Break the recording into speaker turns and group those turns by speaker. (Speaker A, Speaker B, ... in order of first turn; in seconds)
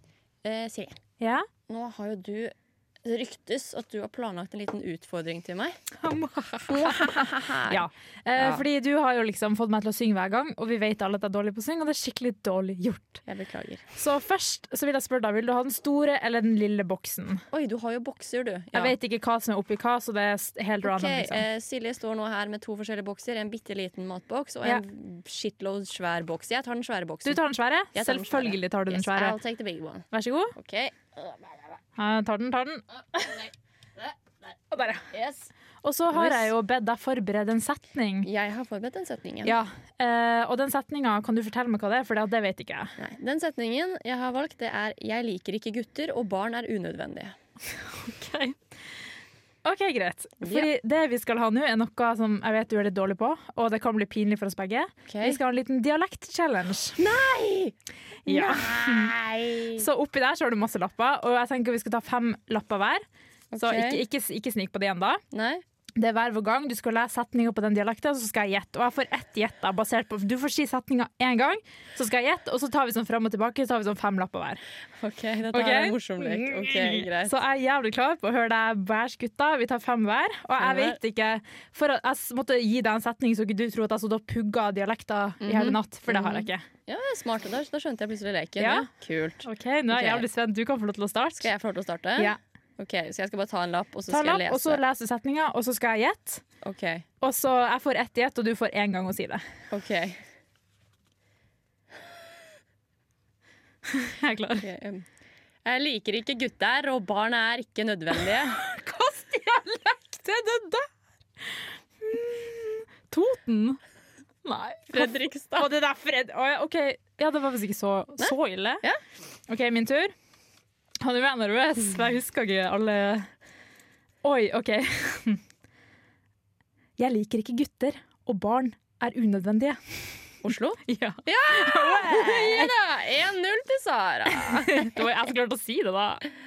Speaker A: 0.4-1.0, 1.7-5.8, 6.7-8.6, 13.2-13.8, 17.5-18.9, 20.8-27.4, 27.9-31.8, 35.1-35.5, 36.1-36.5, 38.2-39.5, 43.0-47.4, 50.4-50.7, 55.1-55.4, 57.0-57.8, 58.3-59.9, 63.5-64.0, 65.3-65.6, 75.0-77.3, 80.6-81.0, 85.4-90.3, 91.4-94.8, 96.6-97.0, 99.7-100.2, 104.6-105.0, 105.7-108.6, 114.9-115.7, 118.2-119.0, 130.4-135.0
Speaker B: 1.2-1.5, 6.0-13.2, 14.0-17.4, 18.7-21.4, 27.2-29.4, 30.1-30.6, 32.0-33.4, 34.7-35.1, 35.8-38.3, 39.4-43.0, 47.9-48.6, 49.6-57.0, 58.3-59.1, 59.8-63.0, 63.6-65.2, 66.0-74.6, 75.5-86.7, 88.6-88.9, 89.5-91.5, 94.1-96.4, 97.2-99.4, 103.9-104.7, 108.4-110.9, 111.5-113.8, 114.5-118.8, 119.5-120.1, 121.0-123.3, 124.2-125.4, 127.0-129.8, 130.9-132.7, 134.3-136.3